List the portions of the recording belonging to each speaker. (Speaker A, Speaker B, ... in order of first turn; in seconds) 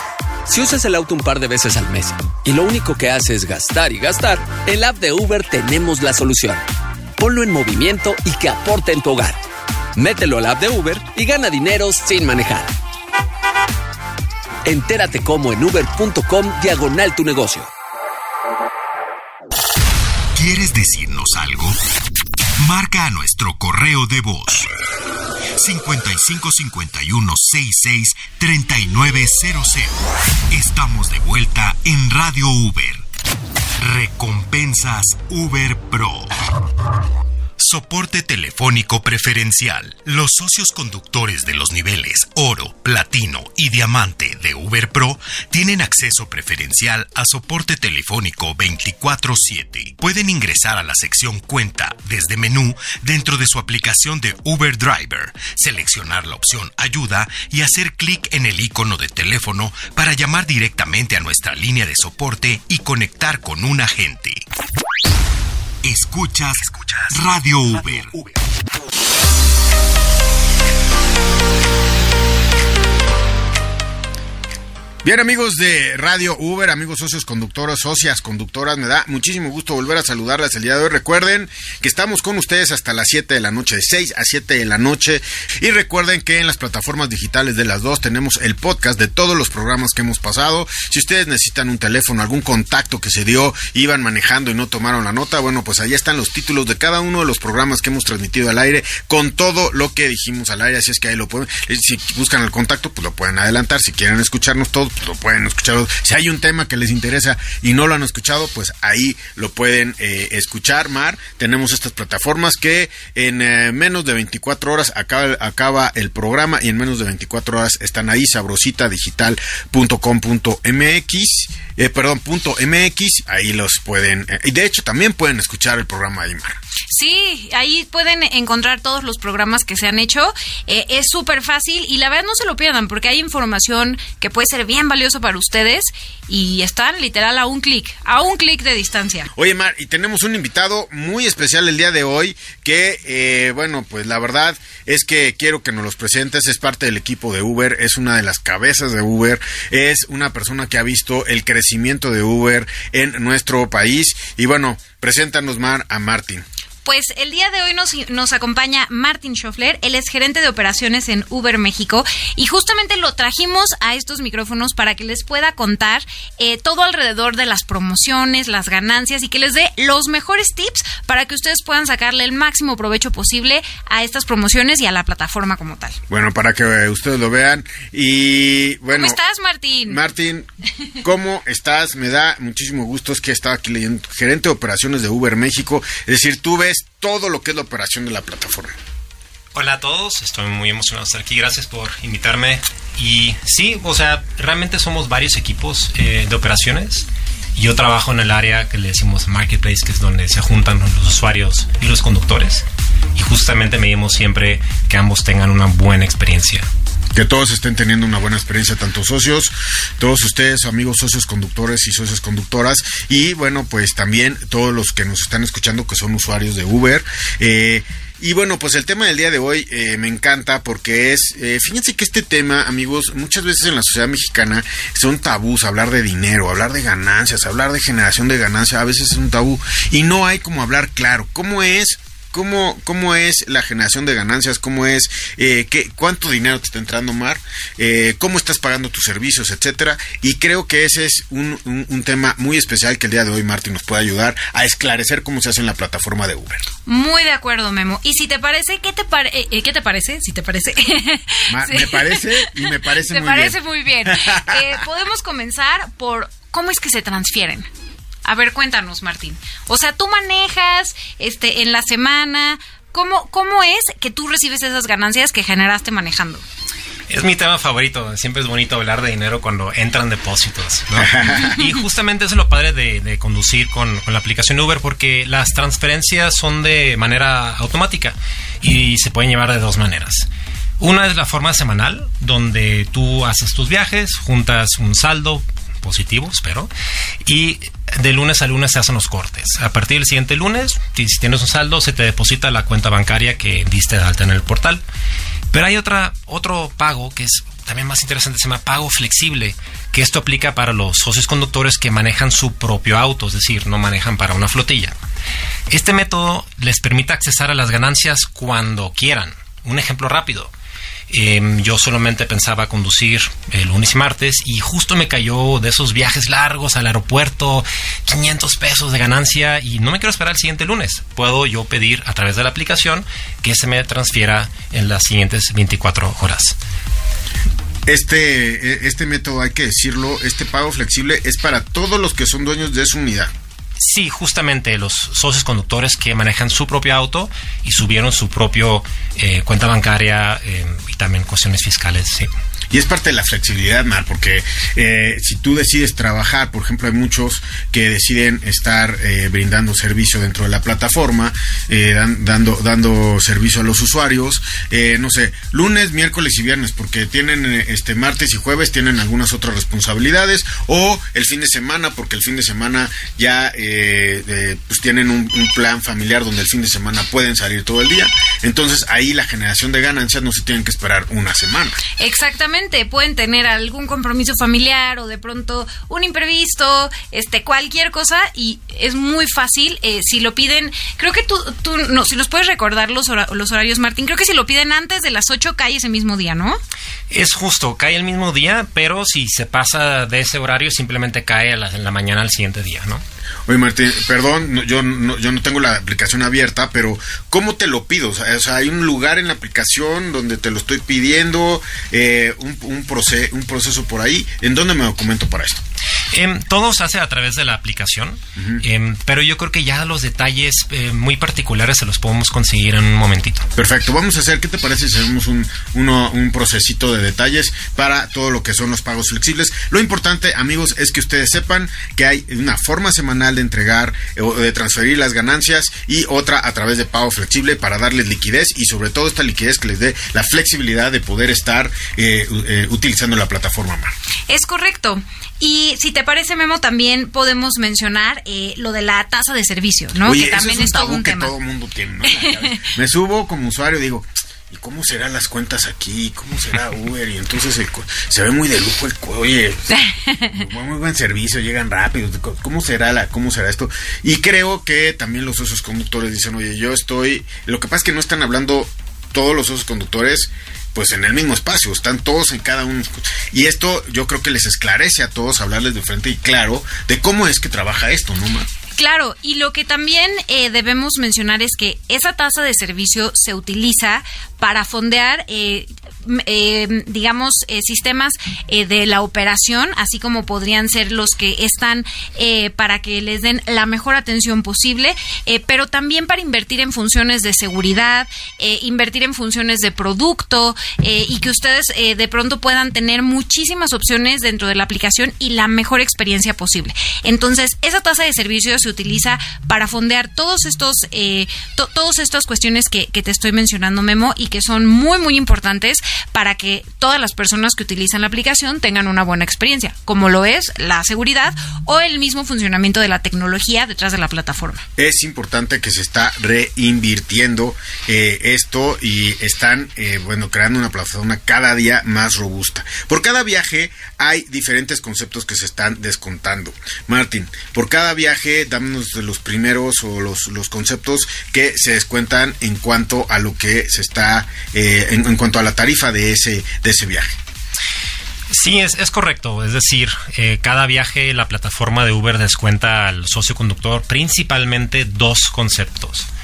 Speaker A: 0.5-6.6, 7.2-9.4, 9.9-12.7, 14.6-17.7
Speaker B: 20.3-21.8, 22.6-24.7, 25.6-33.0, 33.8-36.3, 37.6-64.4, 65.8-68.3
Speaker C: 75.0-126.6, 139.3-156.4, 176.1-179.2, 179.9-180.5, 181.0-188.8, 207.2-246.7, 251.5-254.8, 271.0-271.6, 327.9-333.3, 342.7-371.8, 393.5-405.6, 408.4-408.6, 413.6-433.9, 440.0-468.5, 514.8-537.2
Speaker D: 126.9-139.3, 156.8-176.0, 178.9-180.0, 246.8-257.7, 258.2-266.4, 372.0-386.6, 434.3-441.3, 442.1-442.7, 449.7-450.4, 468.8-514.6
Speaker E: 189.5-197.0, 197.6-206.7, 267.1-280.3, 280.8-286.7, 287.2-294.8, 295.5-304.9, 305.7-310.5, 311.1-326.5, 333.8-342.3, 387.1-393.0, 406.1-413.4, 538.3-546.1